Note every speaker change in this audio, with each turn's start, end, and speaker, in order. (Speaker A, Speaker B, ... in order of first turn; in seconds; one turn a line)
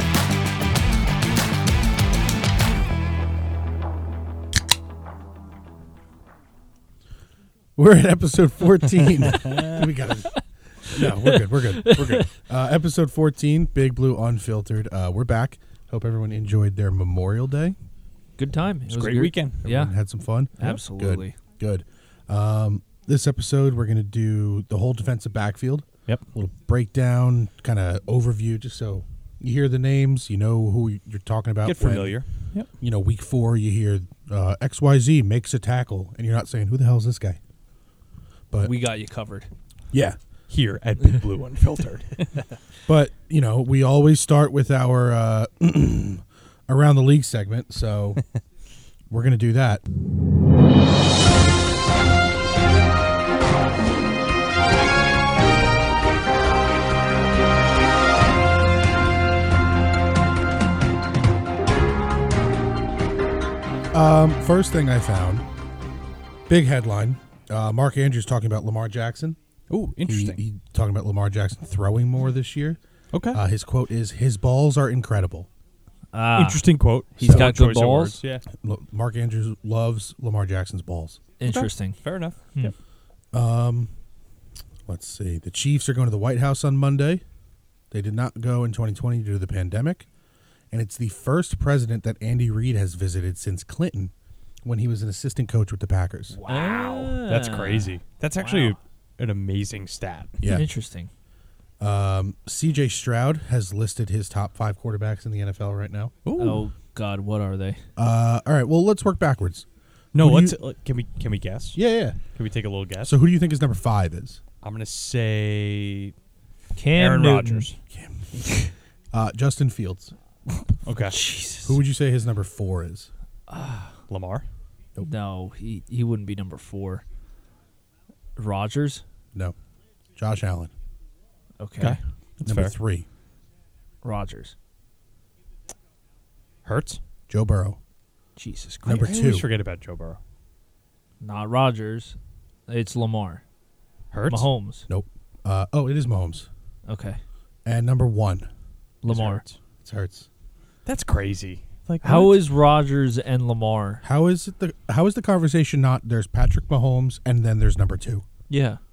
Speaker A: 7.8-17.8
Speaker B: 9.3-9.9
Speaker C: 10.9-12.3
Speaker C: 18.4-19.9
Speaker B: 18.9-19.6
Speaker A: 19.6-32.2
Speaker C: 20.6-21.4
Speaker B: 31.6-32.7
Speaker A: 32.8-37.4
Speaker A: 38.5-38.8
Speaker C: 38.6-39.5
Speaker A: 39.9-40.2
Speaker B: 40.5-42.4
Speaker A: 42.9-48.2
Speaker A: 49.1-49.8
Speaker A: 63.9-65.5
Speaker A: 66.5-69.4
Speaker B: 69.7-70.4
Speaker A: 70.1-72.8
Speaker B: 73.1-73.4
Speaker A: 73.3-75.5
Speaker C: 76.1-76.6
Speaker B: 76.3-78.4
Speaker C: 77.2-78.2
Speaker A: 77.2-77.5
Speaker A: 78.6-81.2
Speaker C: 81.4-82.0
Speaker B: 81.4-82.7
Speaker A: 83.3-83.9
Speaker A: 84.9-87.2
Speaker A: 87.9-90.1
Speaker A: 90.7-94.1
Speaker A: 94.6-96.4
Speaker B: 96.3-100.4
Speaker C: 96.5-98.8
Speaker A: 100.4-100.7
Speaker C: 100.5-101.1
Speaker A: 101.8-106.1
Speaker B: 106.2-106.7
Speaker C: 106.4-107.8
Speaker A: 108.0-109.7
Speaker B: 110.1-113.2
Speaker A: 110.2-110.6
Speaker A: 111.8-112.2
Speaker A: 113.0-114.4
Speaker B: 114.6-116.1
Speaker C: 116.8-117.7
Speaker B: 117.0-117.8
Speaker A: 117.9-118.6
Speaker C: 118.4-118.7
Speaker A: 119.1-120.1
Speaker B: 120.8-121.2
Speaker C: 121.0-121.8
Speaker A: 121.6-123.1
Speaker C: 123.5-123.9
Speaker B: 124.1-124.5
Speaker C: 125.0-127.0
Speaker C: 128.4-129.0
Speaker A: 130.2-130.7
Speaker C: 131.6-132.0
Speaker B: 131.8-132.7
Speaker A: 132.4-133.1
Speaker C: 134.0-134.6
Speaker B: 136.7-137.0
Speaker A: 137.3-137.8
Speaker C: 138.4-139.2
Speaker A: 138.8-139.5
Speaker B: 139.0-140.2
Speaker C: 141.2-142.2
Speaker C: 142.7-143.4
Speaker B: 144.1-144.5
Speaker C: 144.3-144.9
Speaker A: 144.9-146.5
Speaker C: 146.9-147.2
Speaker A: 147.7-148.5
Speaker C: 149.0-149.4
Speaker B: 149.1-149.6
Speaker A: 149.8-150.3
Speaker B: 150.9-152.4
Speaker C: 152.0-154.0
Speaker A: 154.0-158.2
Speaker C: 158.5-158.8